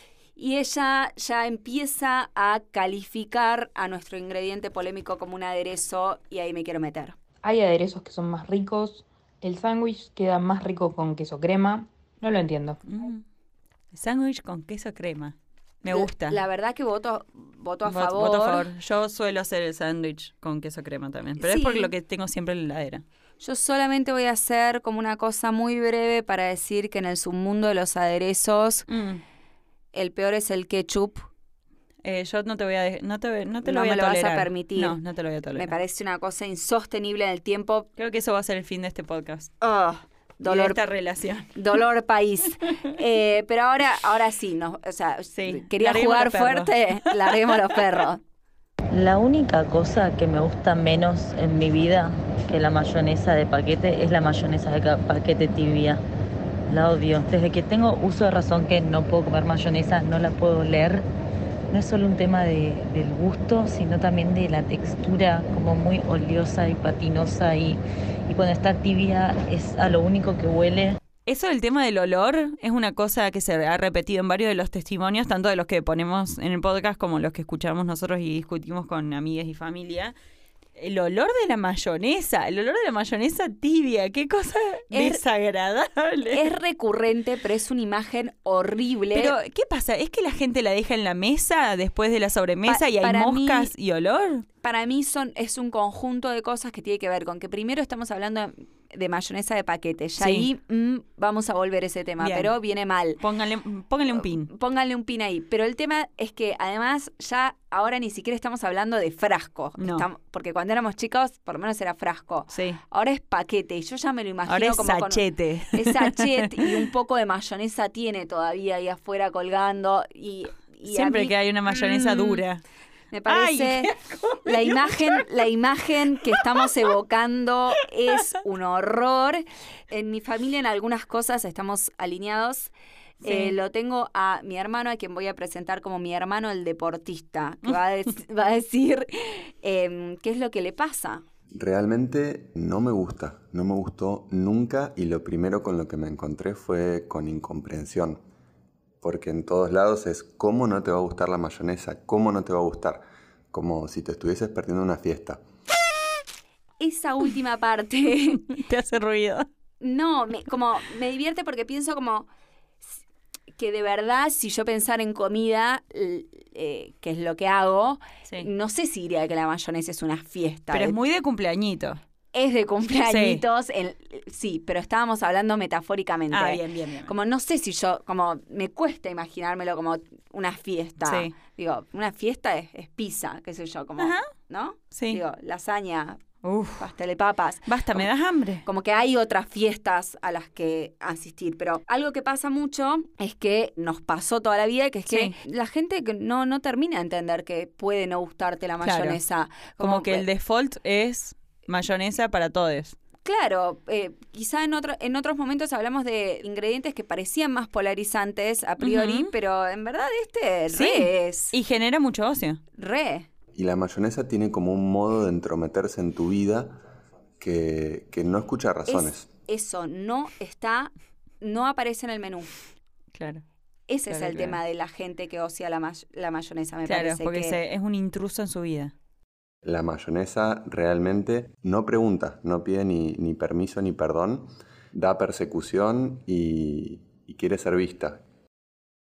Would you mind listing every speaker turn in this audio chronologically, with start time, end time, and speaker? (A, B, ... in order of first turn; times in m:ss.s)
0:00.4-0:07.2 A
0:07.4-0:12.8 B
0:12.9-0:13.2 C
0:13.9-0:16.4 C
0:15.9-0:18.7 A
0:17.8-0:23.0 C
0:21.4-0:21.9 A
0:23.4-0:28.8 A
0:28.9-0:29.2 C
0:29.9-0:31.3 A
0:32.0-0:35.7 C
0:33.6-0:35.0 A
0:35.5-0:37.9 A
0:38.0-0:39.5 C
0:39.6-0:40.8 A
0:40.4-0:41.5 C
0:41.5-0:48.2 A
0:45.4-0:47.5 C
0:48.9-0:56.0 D
0:56.7-1:01.0 D
1:01.7-1:11.0 D
1:11.2-1:20.1 C
1:20.8-1:26.5 C
1:24.9-1:25.2 A
1:26.3-1:29.3 A
1:29.1-1:34.4 C
1:32.7-1:33.7 A
1:34.6-1:43.2 A
1:40.2-1:40.5 C
1:42.2-1:42.5 C
1:43.2-1:44.5 C
1:44.1-2:02.4 A
1:49.8-1:50.0 C
1:52.5-1:52.8 C
1:54.5-1:56.7 C
2:00.9-2:02.6 C
2:03.1-2:03.9 A
2:03.3-2:05.2 C
2:04.4-2:21.2 A
2:06.3-2:06.6 C
2:13.2-2:13.5 C
2:21.5-2:28.2 E
2:29.0-2:35.4 E
2:36.8-2:38.5 A
2:38.4-2:39.5 C
2:39.8-2:42.3 A
2:43.6-2:51.0 A
2:50.7-2:52.0 C
2:52.3-3:06.2 A
2:53.0-2:53.4 C
2:56.3-2:57.1 C
3:01.0-3:01.3 C
3:04.0-3:04.3 C
3:04.9-3:05.2 C
3:06.4-3:06.9 C
3:06.8-3:08.1 A
3:07.6-3:08.6 C
3:08.6-3:20.2 A
3:15.1-3:15.4 C
3:18.8-3:19.2 C
3:19.8-3:23.0 C
3:23.2-3:31.5 A
3:28.8-3:29.3 C
3:30.7-3:32.6 C
3:32.8-3:33.3 A
3:33.5-3:36.8 E
3:37.4-3:39.3 E
3:38.9-3:42.5 A
3:43.1-3:43.4 C
3:43.9-3:47.6 A
3:44.1-3:44.6 C
3:46.9-3:48.9 C
3:49.6-3:58.2 E